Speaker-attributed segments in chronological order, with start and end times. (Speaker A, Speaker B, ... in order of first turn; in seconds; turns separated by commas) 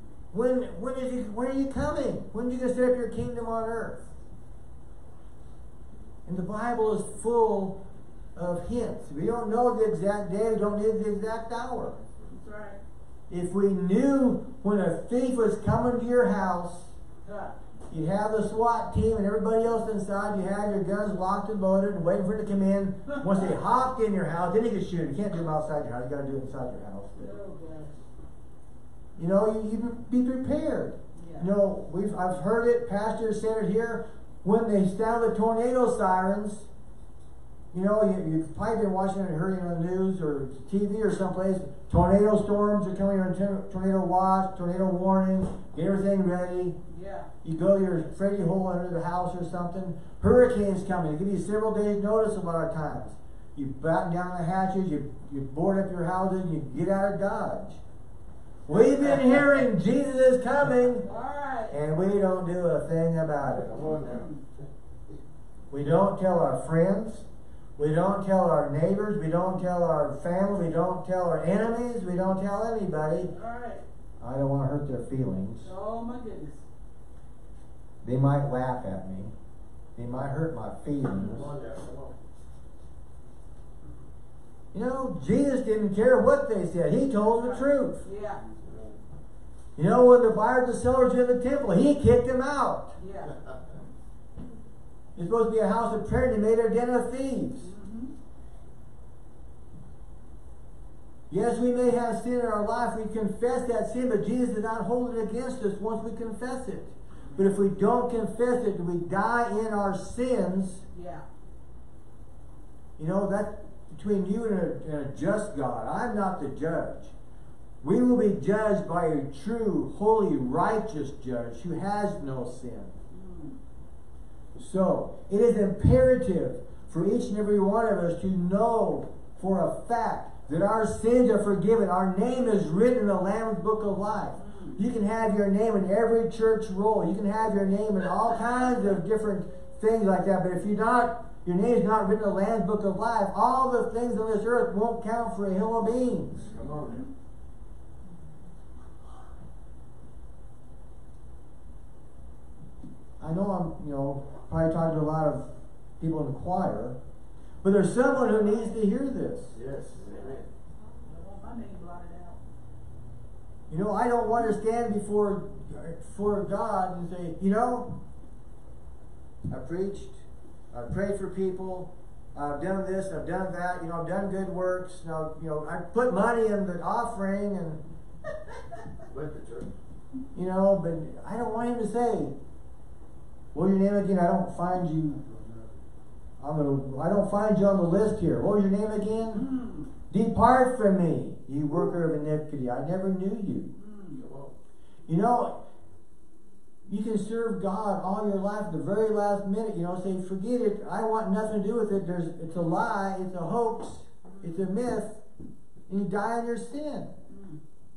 Speaker A: 0.3-4.1, Speaker A: 6.2-7.8, Speaker A: 8.3-12.0, Speaker B: 12.2-12.8, Speaker A: 13.3-16.9, Speaker B: 17.2-17.5, Speaker A: 17.9-27.3, Speaker B: 27.2-27.9, Speaker A: 29.2-36.7, Speaker B: 31.1-31.5, Speaker A: 37.7-46.8, Speaker B: 46.9-47.3, Speaker A: 47.4-57.8, Speaker A: 58.7-61.1, Speaker B: 61.0-61.7, Speaker A: 61.7-63.9, Speaker C: 63.5-64.2, Speaker B: 63.8-64.4, Speaker A: 65.7-67.2, Speaker A: 67.8-73.3, Speaker B: 73.3-73.8, Speaker A: 74.2-75.7, Speaker B: 75.6-76.6, Speaker A: 78.0-79.3, Speaker A: 80.0-81.5, Speaker C: 81.1-82.2, Speaker A: 84.7-88.0, Speaker B: 87.4-88.4, Speaker C: 88.4-89.0, Speaker A: 89.8-93.0, Speaker B: 93.0-93.4, Speaker A: 95.2-97.7, Speaker B: 97.6-98.1, Speaker A: 101.3-110.8, Speaker B: 110.9-111.2, Speaker A: 113.0-117.1, Speaker A: 117.8-122.9, Speaker B: 123.1-123.6, Speaker A: 124.5-146.5, Speaker B: 134.4-134.8, Speaker C: 146.4-147.1, Speaker A: 153.2-155.5, Speaker A: 156.0-156.9, Speaker A: 157.6-159.6, Speaker C: 159.5-160.5, Speaker B: 161.0-162.4, Speaker A: 163.7-167.9, Speaker A: 169.5-170.2, Speaker A: 170.7-177.8, Speaker C: 179.1-179.7, Speaker A: 180.3-182.3, Speaker A: 183.5-185.2, Speaker A: 186.4-189.5, Speaker B: 189.3-189.9, Speaker A: 190.1-193.7, Speaker B: 193.8-194.2, Speaker C: 194.1-194.5, Speaker A: 195.1-195.6, Speaker A: 196.9-205.2, Speaker A: 205.9-207.1, Speaker B: 207.3-207.6